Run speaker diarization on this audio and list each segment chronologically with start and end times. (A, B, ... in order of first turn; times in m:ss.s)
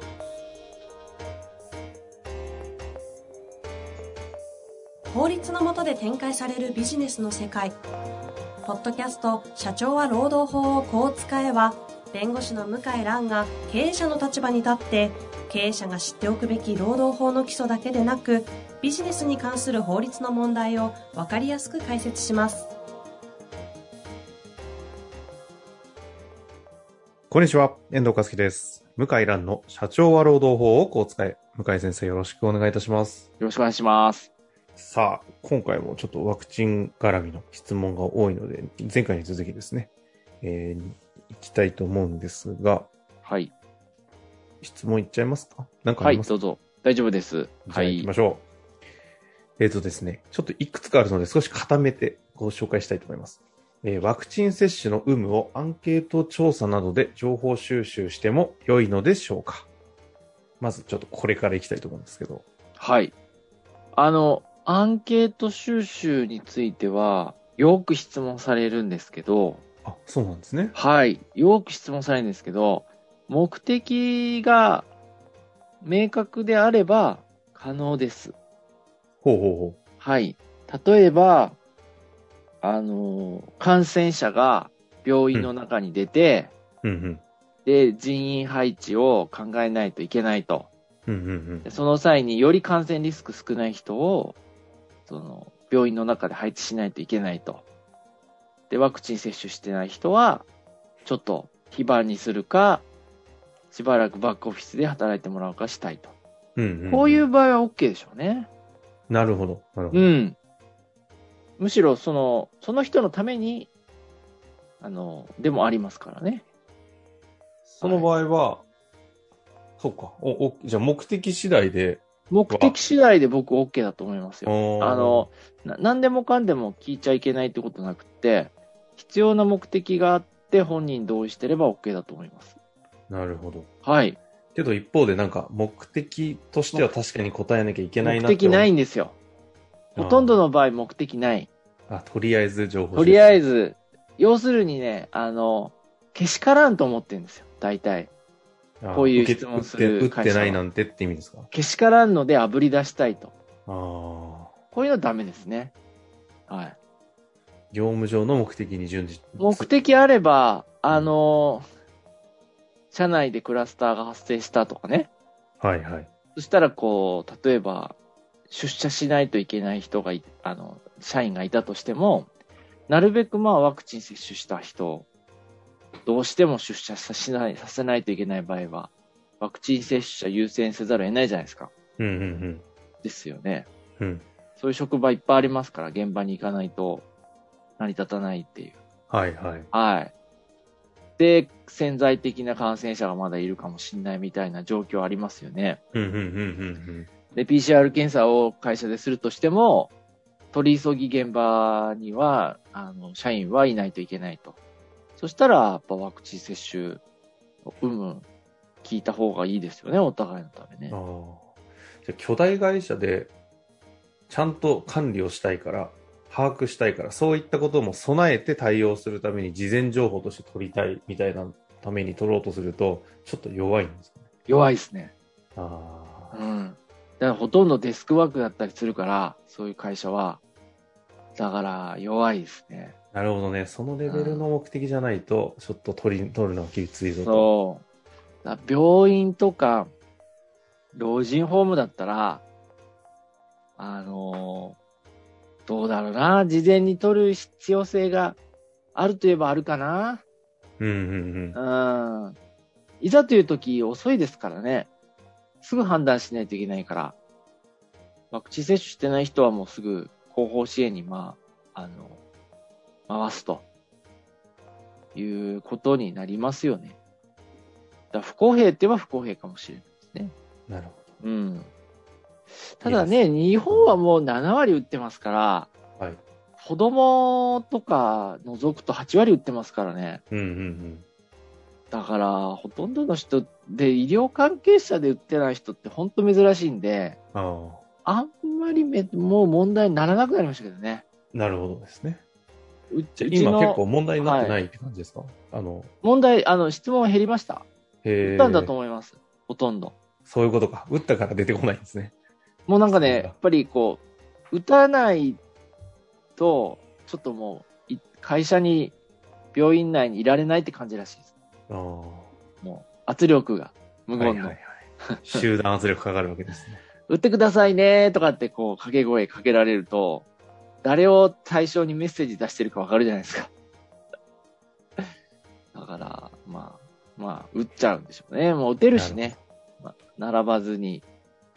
0:05.1-0:07.8 A
0:08.6-0:22.7 A
0:27.3-0:33.3 B
0:33.4-0:34.3 C
0:34.8-0:39.9 B
0:40.4-0:42.9 B
0:43.2-0:43.5 C
0:44.6-0:46.3 B
0:46.0-0:48.1 C
0:47.7-0:48.5 B
0:49.6-0:59.7 B
1:00.6-1:02.4 B
1:02.8-1:03.1 C
1:03.9-1:09.6 C
1:09.8-1:10.8 B
1:10.7-1:14.9 C
1:15.8-1:18.4 C
1:19.2-1:19.8 B
1:20.0-1:21.6 C
1:22.6-1:26.5 C
1:26.8-1:27.2 B
1:27.6-1:30.7 C
1:31.1-1:31.7 B
1:31.6-1:34.4 C
1:35.1-1:37.6 C
1:38.7-1:40.5 C
1:41.0-1:42.9 C
1:43.7-1:46.2 C
1:46.6-1:47.3 B
1:46.9-1:48.5 C
1:49.1-1:50.1 B
1:49.9-1:50.4 C
1:51.6-1:53.7 C
1:54.8-1:56.4 C
1:57.7-1:58.6 B
1:57.8-1:58.1 C
1:59.8-2:02.8 B
2:02.3-2:12.6 C
2:04.5-2:05.3 B
2:13.1-2:13.7 B
2:13.8-2:14.2 C
2:14.6-2:18.7 B
2:18.0-2:19.2 C
2:20.0-2:21.5 C
2:20.0-2:20.4 B
2:21.9-2:23.4 B
2:22.9-2:28.1 C
2:28.8-2:31.5 B
2:28.9-2:30.6 C
2:31.5-2:33.3 C
2:33.7-2:34.5 B
2:34.7-2:35.7 C
2:36.5-2:36.8 C
2:37.7-2:39.7 B
2:39.4-2:41.6 C
2:42.9-2:45.1 C
2:45.6-2:46.1 B
2:46.4-2:48.0 C
2:48.5-2:52.3 C
2:52.9-2:55.1 C
2:56.0-3:01.7 C
3:02.0-3:02.6 B
3:03.0-3:03.7 C
3:04.0-3:04.2 B
3:04.6-3:07.1 C
3:07.8-3:08.8 C
3:09.1-3:09.7 B
3:09.7-3:10.1 C
3:11.2-3:15.8 C
3:15.9-3:17.1 B
3:17.3-3:19.9 C
3:20.5-3:24.6 C
3:25.2-3:27.0 C
3:27.6-3:28.3 C
3:28.8-3:31.0 C
3:30.9-3:33.3 B
3:34.3-3:44.3 B
3:44.5-3:45.1 C
3:45.6-3:46.4 B
3:46.3-3:50.4 C
3:51.4-3:53.0 C
3:53.1-3:57.5 B
3:54.0-3:54.5 C
3:57.2-3:57.8 C
3:58.4-3:59.9 C
4:00.9-4:02.4 C
4:03.8-4:04.8 C
4:05.7-4:08.4 C
4:09.0-4:10.2 C
4:10.8-4:11.6 B
4:11.5-4:12.4 C
4:13.0-4:14.9 C
4:15.6-4:17.2 C
4:18.3-4:22.2 C
4:23.1-4:23.6 C
4:25.1-4:27.0 C
4:28.1-4:30.4 C
4:30.7-4:31.1 B
4:31.2-4:31.7 C
4:32.8-4:35.7 C
4:32.8-4:34.0 B
4:36.6-4:40.2 C
4:40.3-4:41.1 B
4:41.9-4:47.2 C
4:47.3-4:47.8 B
4:48.0-4:51.0 C
4:51.3-4:52.2 B
4:52.9-4:54.6 C
4:53.2-4:55.9 B
4:56.0-4:57.7 C
4:58.0-4:58.7 B
4:58.2-5:00.0 C
5:00.2-5:02.1 B
5:02.7-5:05.4 C
5:02.9-5:03.4 B
5:06.4-5:08.9 C
5:09.5-5:11.3 C
5:11.7-5:12.3 B
5:12.6-5:15.4 C
5:14.2-5:16.8 B
5:17.1-5:20.3 C
5:20.8-5:23.5 C
5:25.7-5:31.1 C
5:28.9-5:29.4 B